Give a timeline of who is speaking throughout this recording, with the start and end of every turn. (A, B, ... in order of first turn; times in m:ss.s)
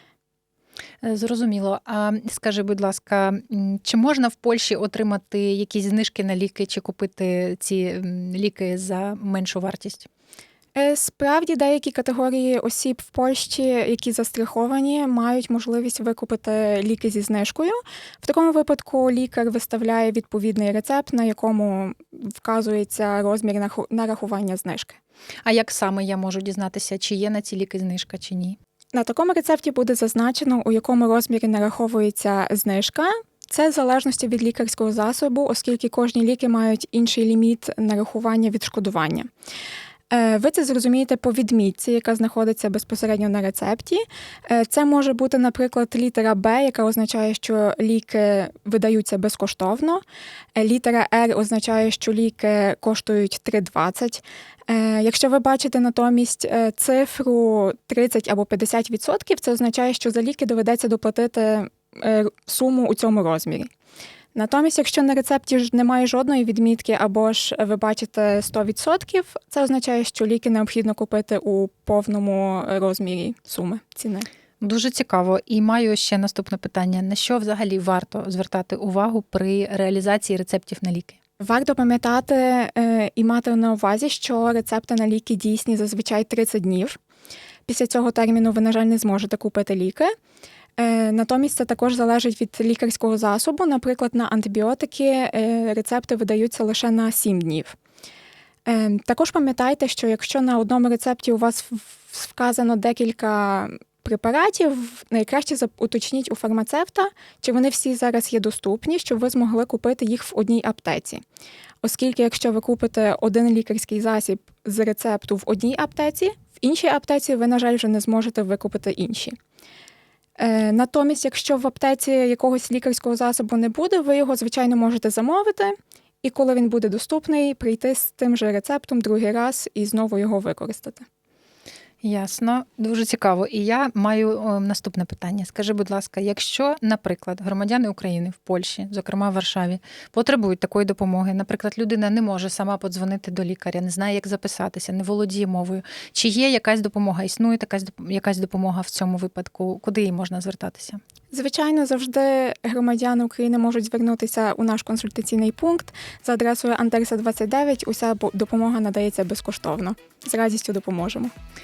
0:01.0-0:10.1 A
0:10.7-0:25.0 B
0:25.4-0:28.6 A
0:28.9-0:39.3 B
0:40.1-0:50.0 B
0:50.6-1:03.7 B
1:04.3-1:14.3 B
1:14.6-1:21.2 A
1:21.4-1:27.0 B
1:27.7-1:30.1 B
1:30.8-1:37.8 B
1:38.6-1:51.2 B
1:51.8-1:59.4 B
2:00.4-2:11.0 B
2:12.0-2:31.0 A
2:31.3-2:41.3 B